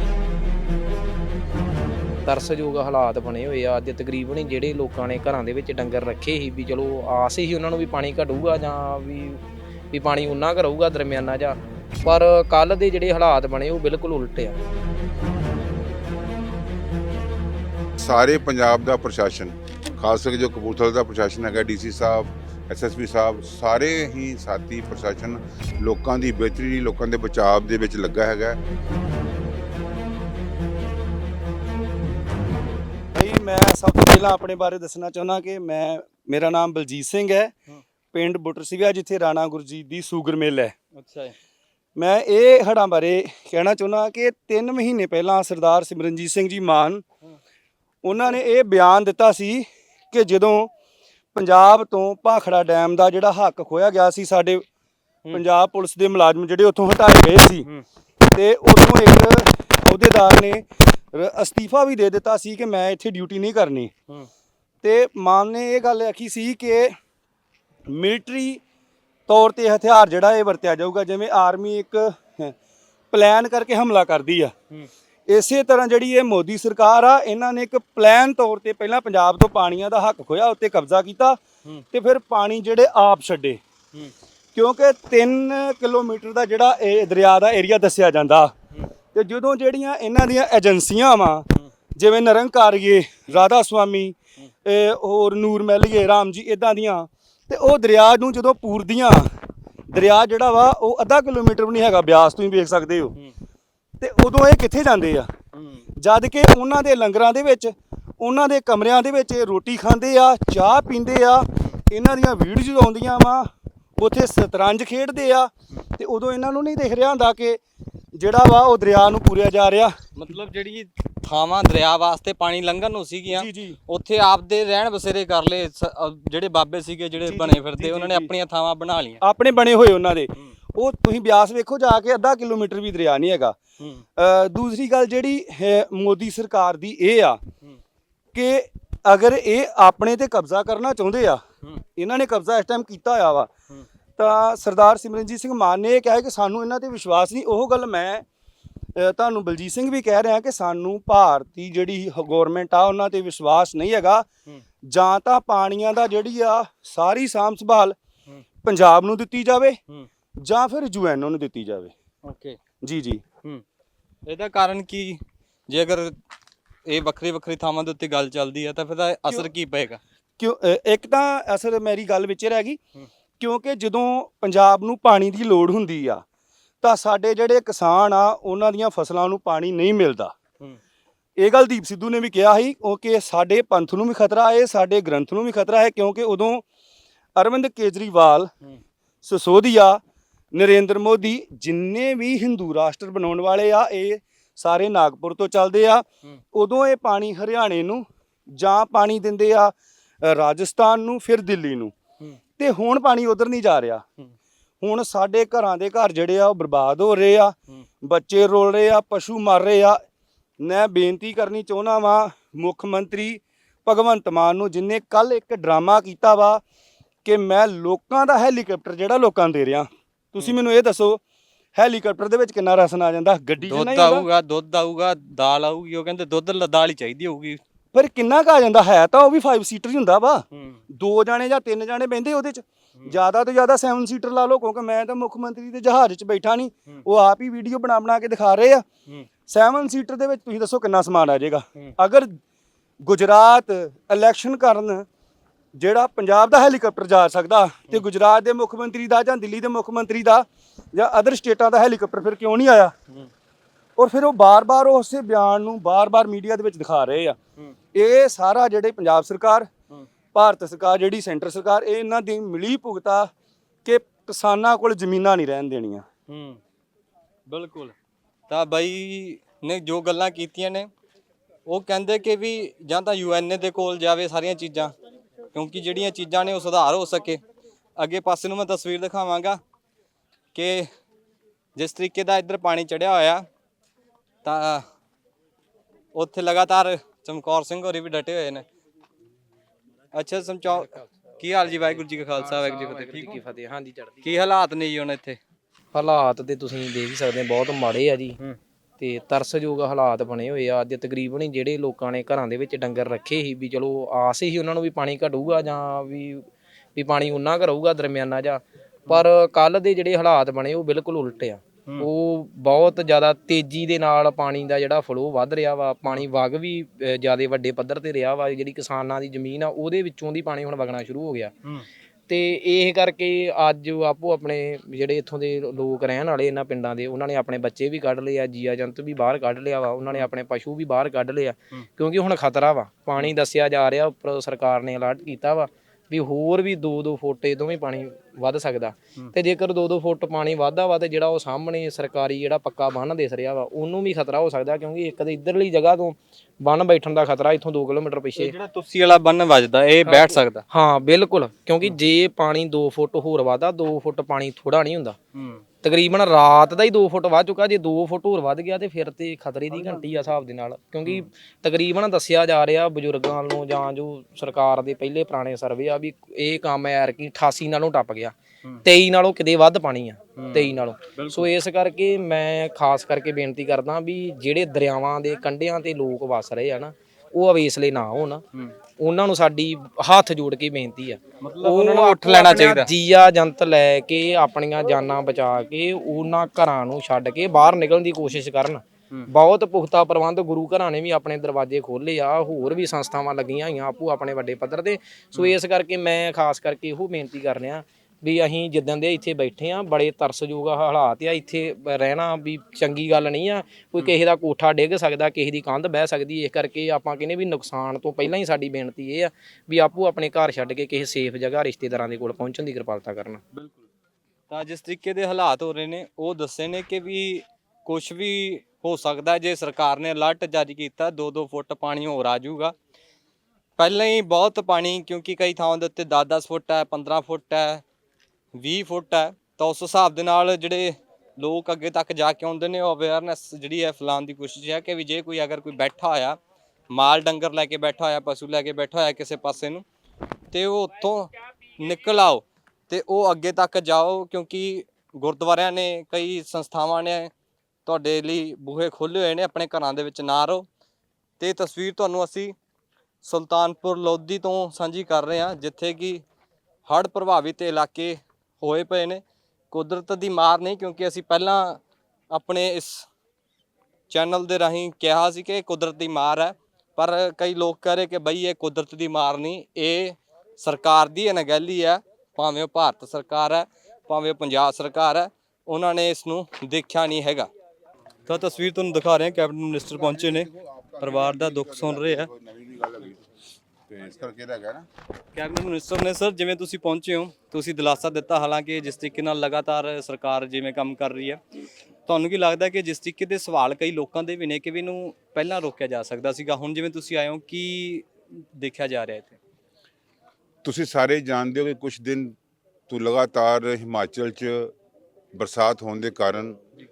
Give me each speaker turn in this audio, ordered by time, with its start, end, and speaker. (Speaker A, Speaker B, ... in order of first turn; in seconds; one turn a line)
Speaker A: 2.2-14.6
Speaker B: 18.0-28.6
Speaker C: 33.1-37.5
Speaker C: 38.1-40.7
Speaker D: 40.9-41.3
Speaker C: 42.0-47.0
Speaker C: 48.0-50.7
Speaker C: 51.3-54.6
Speaker C: 55.3-57.7
Speaker C: 58.3-63.9
Speaker C: 64.8-67.0
Speaker C: 67.9-68.6
Speaker C: 69.3-72.5
Speaker C: 73.1-74.5
Speaker C: 75.3-81.4
Speaker C: 81.9-83.6
Speaker C: 84.5-88.5
Speaker C: 89.1-91.4
Speaker C: 92.0-99.3
Speaker C: 99.9-103.1
Speaker C: 104.0-105.3
Speaker D: 105.5-105.8
Speaker C: 106.0-117.6
Speaker C: 118.1-119.9
Speaker D: 120.2-129.2
Speaker C: 123.3-123.8
Speaker C: 127.2-128.3
Speaker C: 129.2-133.6
Speaker C: 134.2-137.4
Speaker C: 138.3-141.4
Speaker C: 141.9-143.5
Speaker C: 144.2-148.2
Speaker C: 148.9-154.2
Speaker C: 154.8-157.9
Speaker C: 158.6-159.8
Speaker C: 160.4-161.9
Speaker D: 162.2-162.6
Speaker C: 162.8-163.2
Speaker D: 164.3-166.2
Speaker D: 166.8-170.0
Speaker C: 170.4-172.8
Speaker C: 173.4-176.2
Speaker C: 176.8-180.3
Speaker C: 181.4-186.6
Speaker C: 187.3-188.5
Speaker C: 189.2-190.0
Speaker C: 190.5-201.9
Speaker C: 202.6-204.0
Speaker C: 204.8-210.0
Speaker C: 210.6-216.6
Speaker C: 217.2-221.2
Speaker C: 221.7-224.3
Speaker D: 223.6-227.6
Speaker C: 227.9-238.9
Speaker D: 230.5-230.8
Speaker C: 239.5-242.4
Speaker C: 243.0-245.1
Speaker C: 245.7-252.9
Speaker C: 254.0-257.4
Speaker C: 257.9-259.7
Speaker C: 260.3-263.3
Speaker C: 263.8-266.1
Speaker D: 266.3-266.6
Speaker D: 267.5-267.9
Speaker D: 268.5-270.9
Speaker D: 271.7-274.9
Speaker D: 275.5-277.4
Speaker D: 278.0-279.6
Speaker D: 280.5-280.9
Speaker D: 281.8-283.5
Speaker D: 284.4-284.8
Speaker D: 286.1-288.6
Speaker D: 290.1-293.4
Speaker A: 292.3-294.3
Speaker D: 294.2-295.4
Speaker A: 295.9-298.4
Speaker A: 299.0-321.5
Speaker A: 322.3-348.5
Speaker D: 348.4-350.6
Speaker A: 350.0-355.2
Speaker D: 355.3-355.6
Speaker A: 355.8-378.4
Speaker D: 359.7-360.0
Speaker D: 370.4-371.5
Speaker A: 379.0-413.4
Speaker D: 381.4-382.9
Speaker D: 413.5-413.8
Speaker D: 414.5-422.7
Speaker D: 423.8-427.8
Speaker D: 428.5-436.4
Speaker D: 436.9-439.8
Speaker D: 440.5-447.3
Speaker D: 447.9-450.7
Speaker D: 451.4-452.5
Speaker D: 453.2-456.2
Speaker D: 456.9-463.1
Speaker D: 464.1-477.5
Speaker D: 478.2-480.5
Speaker B: 479.9-483.2
Speaker D: 481.0-482.3
Speaker B: 483.9-484.9
Speaker D: 485.3-491.4
Speaker D: 492.1-499.4
Speaker B: 500.6-502.3
Speaker B: 502.9-504.7
Speaker B: 505.3-506.6